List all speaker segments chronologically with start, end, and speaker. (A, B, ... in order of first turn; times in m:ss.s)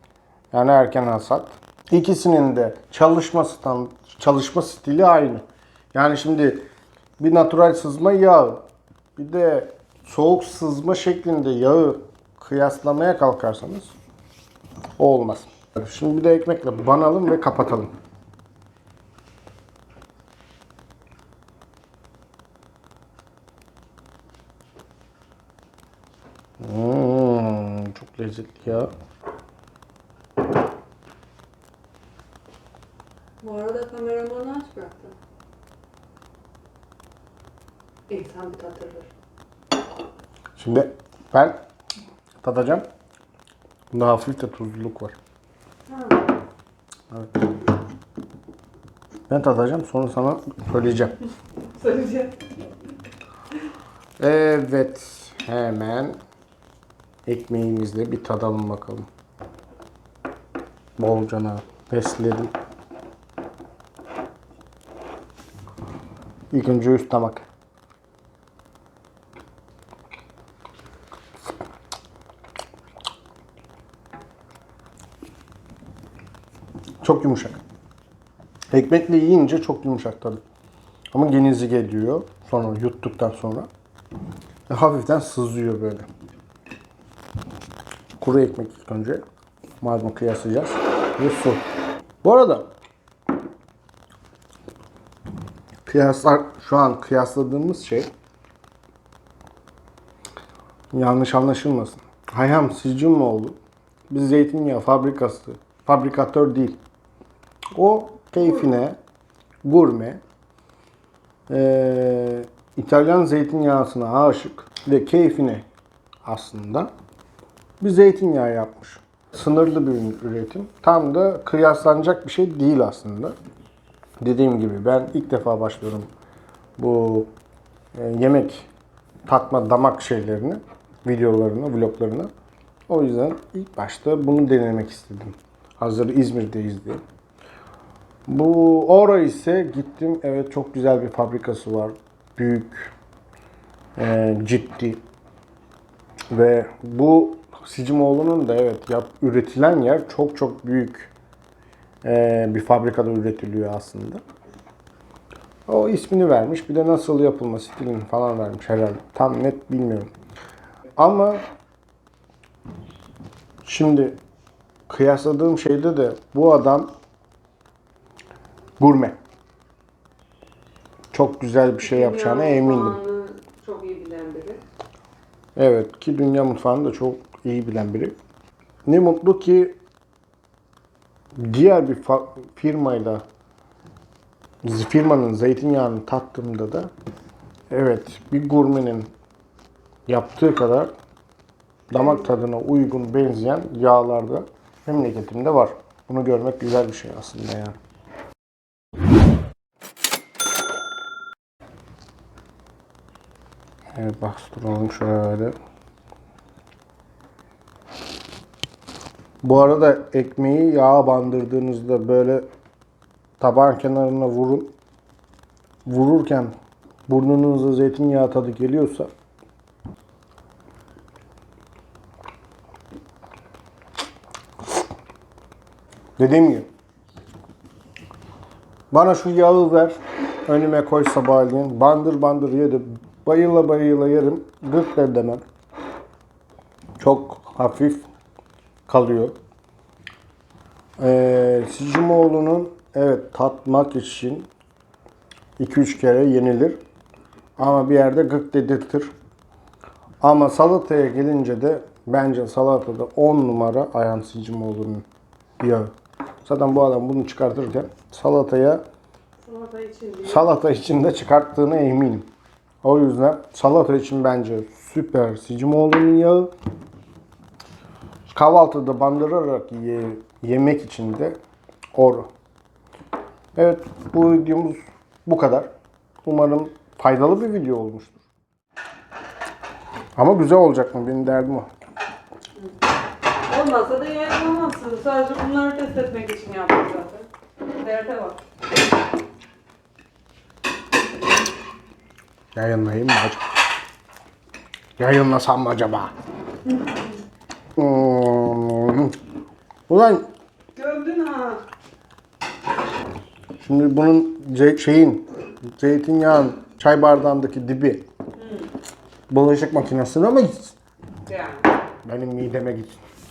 0:00.5-0:06.6 A
0:07.2-0:08.6 A
0:09.2-0:13.9 A
0:15.0-0:17.9 A
0:26.6-0:28.9 A
0:33.4-0:35.2 B
0:38.1-0:39.1 B
0:40.6-0:41.6 A
0:42.4-0:42.9 A
0:43.9-0:45.2 A
0:45.9-0:46.2 B
0:47.1-0:47.4 A
0:49.3-0:51.2 A
0:51.8-0:52.4 B
0:54.2-0:56.2 A
0:57.3-0:59.1 A
1:01.0-1:02.5 A
1:06.5-1:07.5 A
1:17.0-1:17.6 A
1:18.7-1:20.4 A
1:21.1-1:23.7 A
1:24.7-1:26.1 A
1:28.2-1:29.2 A
1:29.8-1:31.6 A
1:32.2-1:32.7 A
1:35.9-1:38.1 A
1:40.9-1:43.6 A
1:44.1-1:46.8 A
1:47.8-1:49.0 A
1:49.6-1:50.2 A
1:51.5-1:55.7 A
1:56.2-1:56.9 A
1:57.8-2:03.4 A
2:04.2-2:06.1 A
2:06.8-2:07.3 A
2:07.9-2:08.7 A
2:09.3-2:12.3 A
2:12.9-2:17.0 A
2:18.3-2:22.9 A
2:24.0-2:25.0 A
2:26.3-2:31.1 A
2:32.0-2:34.2 A
2:35.7-2:40.1 A
2:41.0-2:41.4 A
2:43.6-2:44.2 A
2:44.9-2:46.9 A
2:48.8-2:49.2 A
2:51.1-2:53.0 A
2:51.8-2:54.6 B
2:55.6-2:58.1 A
2:58.9-2:59.8 A
3:01.4-3:03.2 A
3:04.6-3:06.9 A
3:07.7-3:09.1 A
3:10.1-3:10.9 A
3:11.9-3:17.8 A
3:24.0-3:25.6 A
3:29.4-3:32.4 A
3:33.4-3:34.7 A
3:35.9-3:36.5 A
3:37.1-3:39.1 A
3:46.2-3:46.7 A
3:48.9-3:55.4 A
3:57.0-3:58.0 A
3:58.9-3:59.3 A
4:01.0-4:04.5 A
4:05.6-4:06.8 A
4:07.6-4:09.1 A
4:10.2-4:15.0 A
4:15.6-4:15.9 A
4:16.4-4:18.8 A
4:19.4-4:20.5 B
4:20.2-4:22.3 A
4:22.8-4:26.5 A
4:28.3-4:31.4 A
4:31.9-4:32.3 A
4:33.6-4:35.7 A
4:36.2-4:38.2 A
4:40.2-4:41.7 A
4:43.5-4:48.4 B
4:52.6-4:53.5 A
4:55.0-4:56.1 A
4:57.8-4:59.2 A
4:59.9-5:00.3 A
5:00.8-5:01.6 B
5:03.6-5:08.1 A
5:08.4-5:08.7 B
5:09.3-5:10.8 A
5:11.3-5:11.7 B
5:12.0-5:13.0 A